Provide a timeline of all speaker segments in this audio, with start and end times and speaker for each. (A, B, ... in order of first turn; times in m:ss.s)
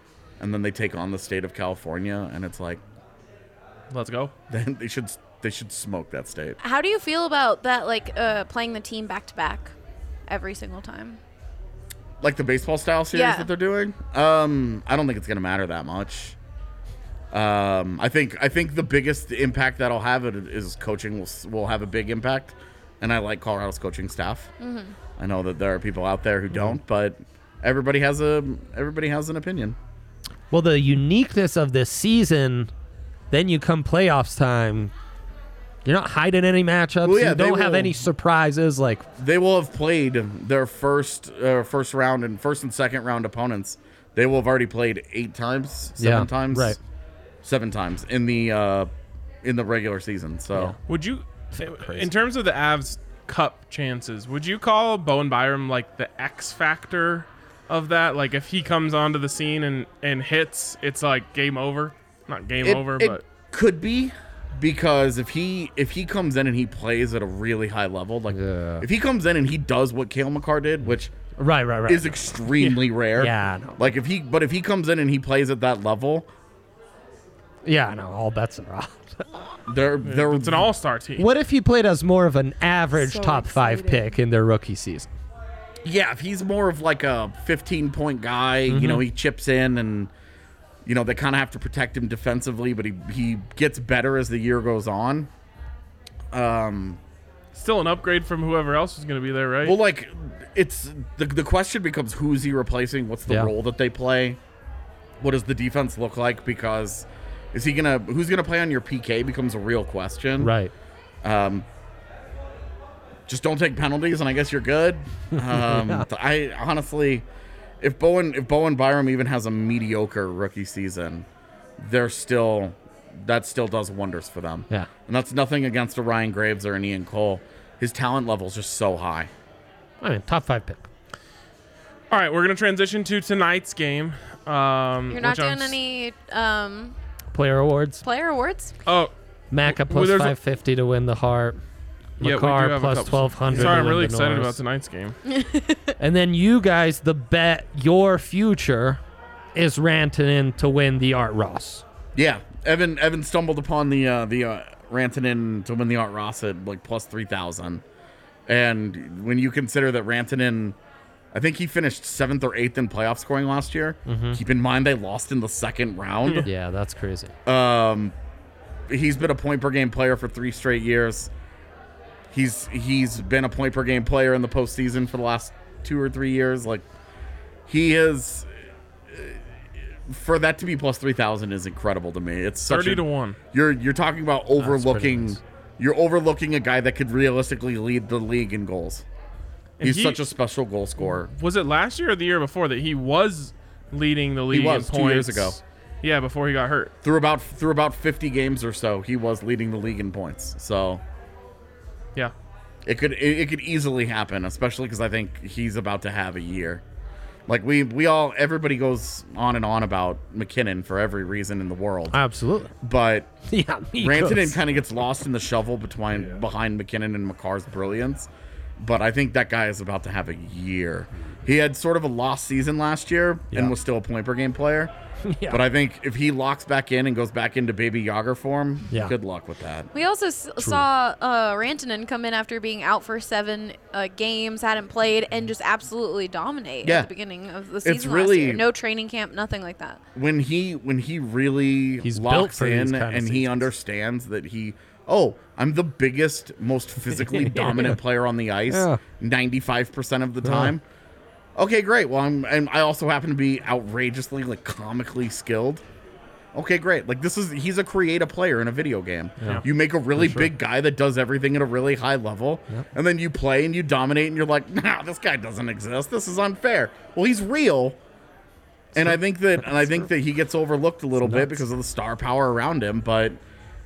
0:00.4-0:02.8 A
0:03.9-0:04.3 B
0:04.5-0:06.6 A
0:06.6-0:09.7 C
0:10.3-0:11.2 C
0:12.2-0:16.4 A
0:13.1-0:13.5 C
0:17.3-0:24.5 A
0:24.6-0:25.0 C
0:25.2-0:29.8 A
0:30.5-0:32.7 D
0:33.3-0:34.9 D
0:35.8-0:39.1 D
0:37.0-0:38.0 A
0:39.2-0:46.8 A
0:46.0-0:46.8 D
0:47.4-0:48.9 A
0:49.4-0:50.8 A
0:50.5-0:50.8 D
0:50.9-1:03.2 B
0:51.6-0:52.1 D
1:02.6-1:11.1 A
1:08.3-1:08.9 D
1:11.4-1:13.9 D
1:11.9-1:16.3 A
1:17.6-1:19.4 D
1:19.7-1:20.7 A
1:20.0-1:21.3 B
1:21.2-1:25.1 D
1:25.8-1:30.1 A
1:28.7-1:29.0 D
1:30.8-1:35.3 A
1:36.3-1:37.0 A
1:37.5-1:39.8 B
1:39.6-1:44.4 A
1:45.2-1:50.5 A
1:50.4-1:50.7 D
1:51.2-1:51.7 A
1:53.3-1:57.3 A
1:55.4-1:56.1 D
1:57.8-2:01.3 A
2:01.8-2:09.3 A
2:10.0-2:10.9 D
2:12.1-2:15.8 B
2:15.1-2:17.0 C
2:17.3-2:18.0 D
2:18.0-2:18.7 C
2:18.9-2:19.1 B
2:19.5-2:21.6 D
2:19.7-2:20.4 B
2:22.2-2:24.6 D
2:22.2-2:25.2 B
2:25.3-2:26.0 C
2:26.0-2:29.0 D
2:29.6-2:31.8 D
2:32.2-2:37.8 A
2:38.5-2:40.8 A
2:41.3-2:46.5 A
2:44.1-2:44.4 D
2:46.4-2:47.3 D
2:47.5-2:48.2 A
2:48.9-2:51.3 A
2:52.3-2:56.8 A
2:57.7-2:58.5 A
2:59.1-2:59.4 A
3:00.1-3:09.0 A
3:02.7-3:03.4 B
3:04.6-3:05.4 D
3:09.8-3:10.2 B
3:09.8-3:11.3 A
3:11.3-3:16.9 B
3:14.5-3:15.6 A
3:17.0-3:21.0 A
3:22.8-3:26.8 A
3:27.5-3:32.2 A
3:32.1-3:32.7 D
3:32.8-3:33.3 A
3:33.5-3:34.6 D
3:34.0-3:44.9 A
3:45.2-3:45.6 D
3:45.5-3:49.9 A
3:49.9-4:00.0 C
3:50.6-3:50.8 D
3:56.8-3:57.1 A
3:57.8-3:58.6 A
4:00.2-4:10.8 A
4:02.0-4:03.7 D
4:07.2-4:08.0 D
4:08.7-4:09.0 D
4:10.4-4:10.7 D
4:11.6-4:15.8 A
4:16.5-4:28.0 A
4:20.2-4:20.5 D
4:28.9-4:33.4 A
4:29.0-4:30.0 D
4:31.2-4:31.6 D